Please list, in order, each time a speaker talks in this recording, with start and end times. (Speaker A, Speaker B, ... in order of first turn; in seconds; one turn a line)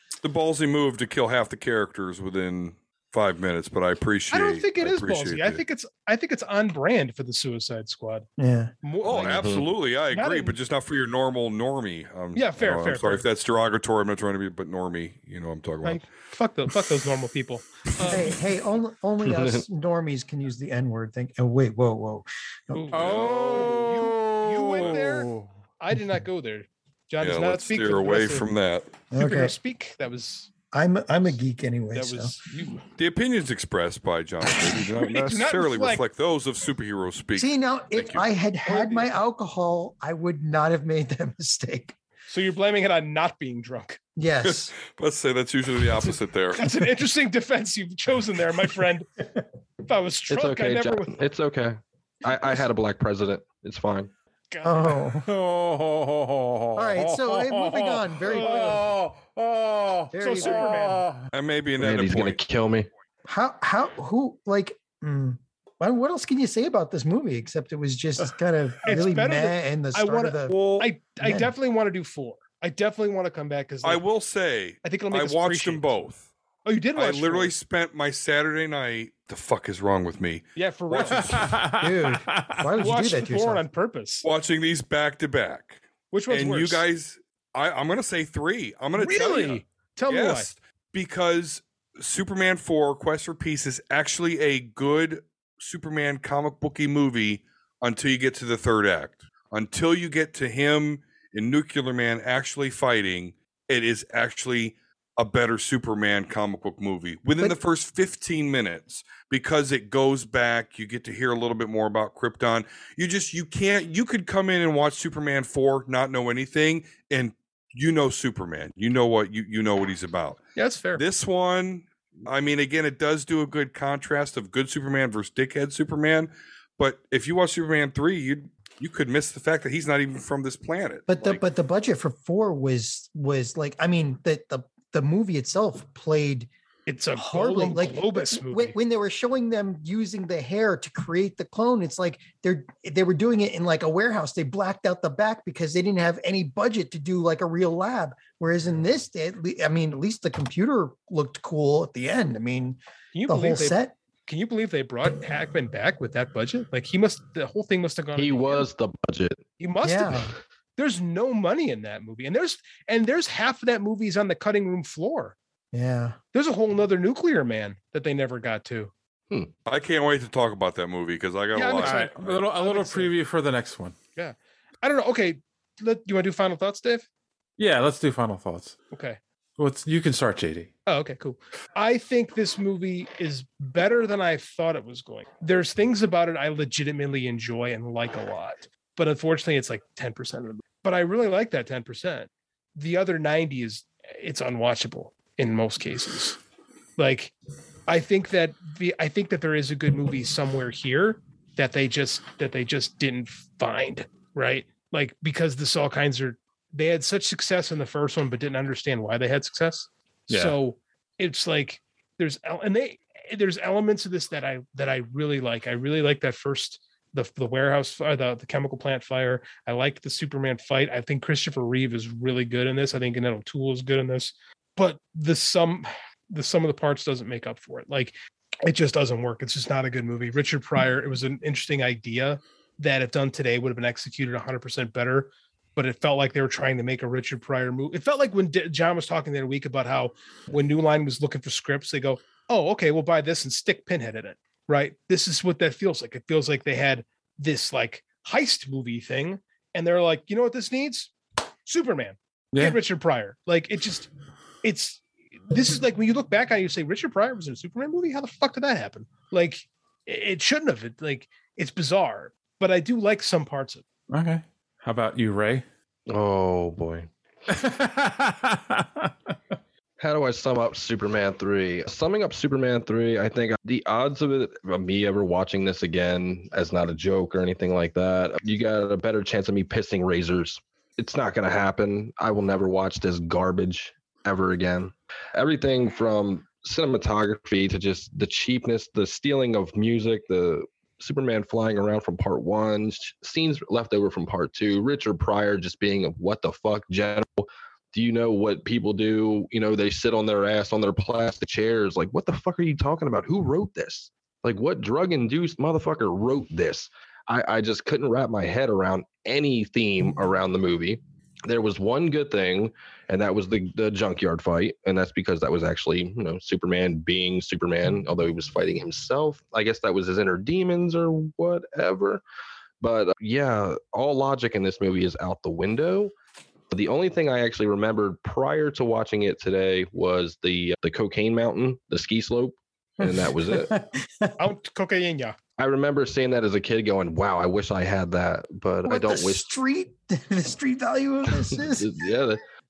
Speaker A: 0.2-5.6
Speaker B: 4.3-8.3
Speaker C: 8.4-8.8
Speaker B: 8.8-10.6
Speaker A: 9.0-16.1
Speaker D: 9.2-9.7
Speaker B: 12.3-13.2
Speaker B: 15.8-18.3
Speaker C: 18.1-22.9
Speaker D: 19.2-19.6
Speaker B: 22.7-28.5
Speaker E: 22.9-25.5
Speaker A: 23.0-23.8
Speaker A: 27.2-28.9
Speaker C: 29.1-29.6
Speaker B: 29.1-30.5
Speaker C: 30.7-32.4
Speaker B: 31.9-32.9
Speaker A: 33.0-38.2
Speaker B: 35.0-36.0
Speaker C: 37.4-42.0
Speaker B: 38.6-39.2
Speaker B: 42.3-44.0
Speaker C: 44.2-44.7
Speaker A: 44.5-46.6
Speaker B: 46.5-49.1
Speaker B: 49.9-51.2
Speaker D: 50.3-54.1
Speaker B: 54.5-55.1
Speaker C: 54.6-55.3
Speaker E: 55.2-61.3
Speaker C: 56.8-58.8
Speaker B: 58.3-58.8
Speaker C: 60.1-60.7
Speaker B: 60.2-61.1
Speaker A: 61.3-62.4
Speaker D: 61.8-62.9
Speaker C: 63.3-70.6
Speaker B: 68.8-74.0
Speaker A: 70.5-70.9
Speaker C: 71.2-71.5
Speaker A: 73.8-76.3
Speaker B: 74.8-76.0
Speaker B: 76.7-77.5
Speaker A: 77.0-81.7
Speaker B: 80.6-81.4
Speaker E: 81.3-82.6
Speaker C: 81.8-83.6
Speaker B: 82.8-84.3
Speaker A: 84.2-120.4
Speaker B: 86.1-86.8
Speaker B: 89.0-90.5
Speaker B: 120.6-121.0
Speaker A: 121.0-131.4
Speaker C: 131.1-136.5
Speaker B: 136.9-138.8
Speaker C: 137.1-153.9
Speaker B: 153.1-158.7
Speaker D: 158.2-159.4
Speaker B: 159.6-165.3
Speaker C: 159.8-160.3
Speaker C: 165.7-166.2
Speaker B: 166.3-168.9
Speaker A: 169.7-172.4
Speaker B: 171.6-173.1
Speaker E: 171.8-174.0
Speaker B: 174.2-177.1
Speaker E: 177.6-178.8
Speaker B: 178.9-179.2
Speaker E: 179.6-180.7
Speaker B: 180.9-196.4
Speaker B: 197.0-197.3
Speaker B: 197.9-228.1
Speaker E: 210.3-210.6
Speaker B: 228.7-251.1
Speaker B: 251.7-254.1
Speaker E: 252.5-252.8
Speaker B: 254.6-263.8
Speaker E: 264.1-265.6
Speaker D: 266.1-267.1
Speaker E: 267.5-269.3
Speaker D: 270.0-322.2
Speaker D: 322.8-326.1
Speaker D: 326.7-333.7
Speaker C: 333.0-334.4
Speaker B: 334.4-335.4
Speaker D: 335.6-339.4
Speaker C: 338.9-341.9
Speaker D: 341.4-342.4